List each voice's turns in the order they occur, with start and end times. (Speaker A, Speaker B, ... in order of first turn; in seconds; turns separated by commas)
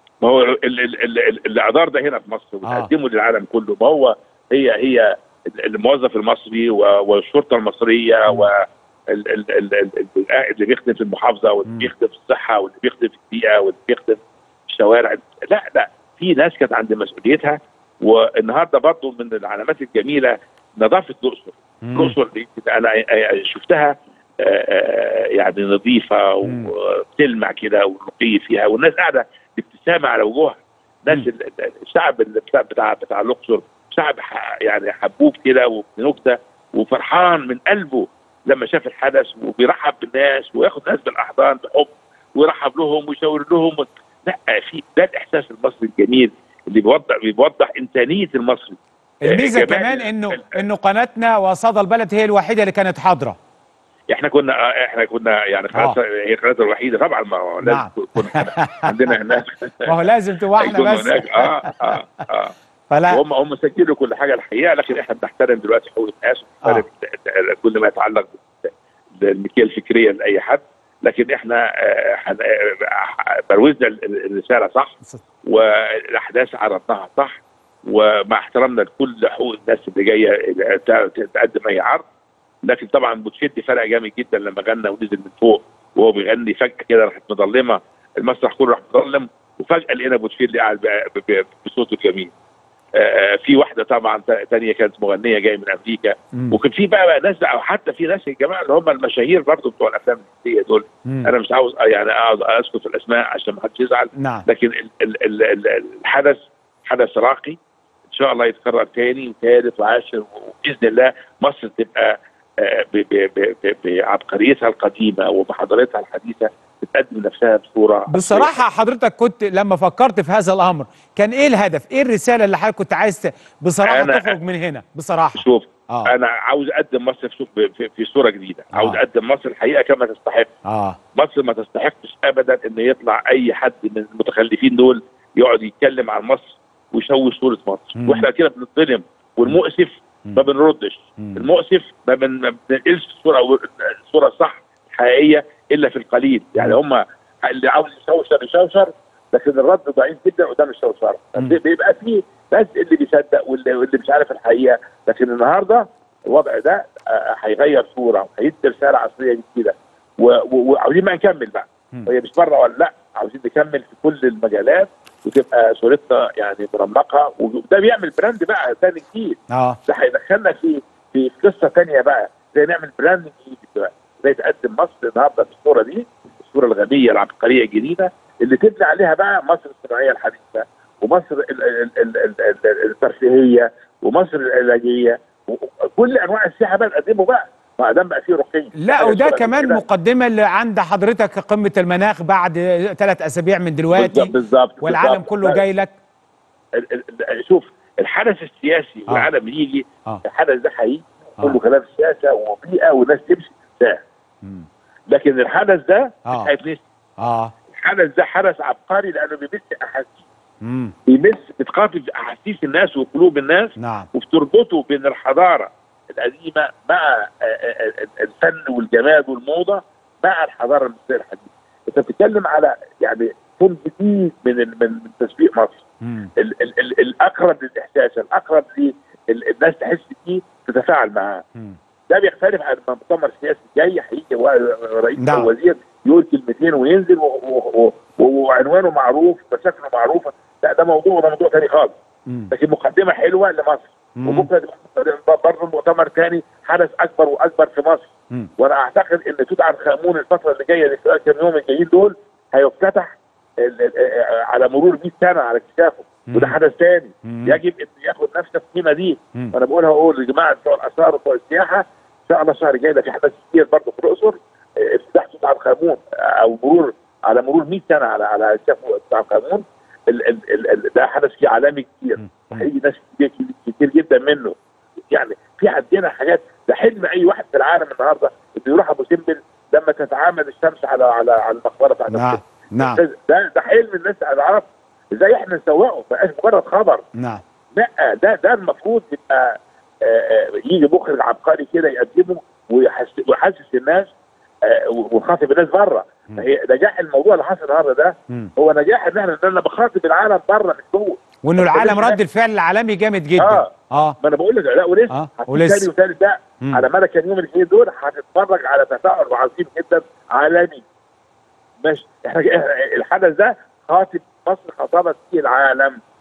Speaker A: 0.2-50.6, Speaker B: 2.6-2.9, Speaker B: 21.8-22.1, Speaker B: 26.4-26.7, Speaker B: 49.2-53.4, Speaker A: 54.1-62.5, Speaker B: 57.6-62.0, Speaker B: 62.9-63.2, Speaker A: 63.1-82.0, Speaker A: 82.6-92.3, Speaker A: 92.9-118.5, Speaker B: 104.2-104.5, Speaker B: 118.1-126.1, Speaker A: 123.8-124.4, Speaker A: 125.4-130.5, Speaker B: 128.7-129.0, Speaker B: 130.6-131.0, Speaker A: 131.1-189.8, Speaker B: 137.9-138.3, Speaker B: 141.2-141.4, Speaker B: 169.5-169.8, Speaker B: 188.8-195.9, Speaker A: 193.9-195.6, Speaker A: 196.7-204.0, Speaker A: 205.1-206.8, Speaker B: 206.3-206.5, Speaker B: 207.2-207.5, Speaker A: 207.7-210.2, Speaker B: 210.6-210.9, Speaker A: 211.1-225.8, Speaker B: 213.8-214.1, Speaker B: 226.0-226.3, Speaker A: 226.4-231.4, Speaker A: 232.1-241.9, Speaker B: 235.2-235.5, Speaker B: 242.3-242.5, Speaker A: 242.5-274.6, Speaker B: 244.2-244.5, Speaker B: 256.3-256.6, Speaker B: 257.2-257.6, Speaker B: 272.2-272.6, Speaker A: 275.1-287.0, Speaker B: 282.1-283.0, Speaker B: 287.1-287.4, Speaker A: 287.8-294.1, Speaker A: 294.6-302.2, Speaker B: 301.4-304.2, Speaker A: 303.4-310.8, Speaker B: 305.1-305.9, Speaker A: 311.8-316.0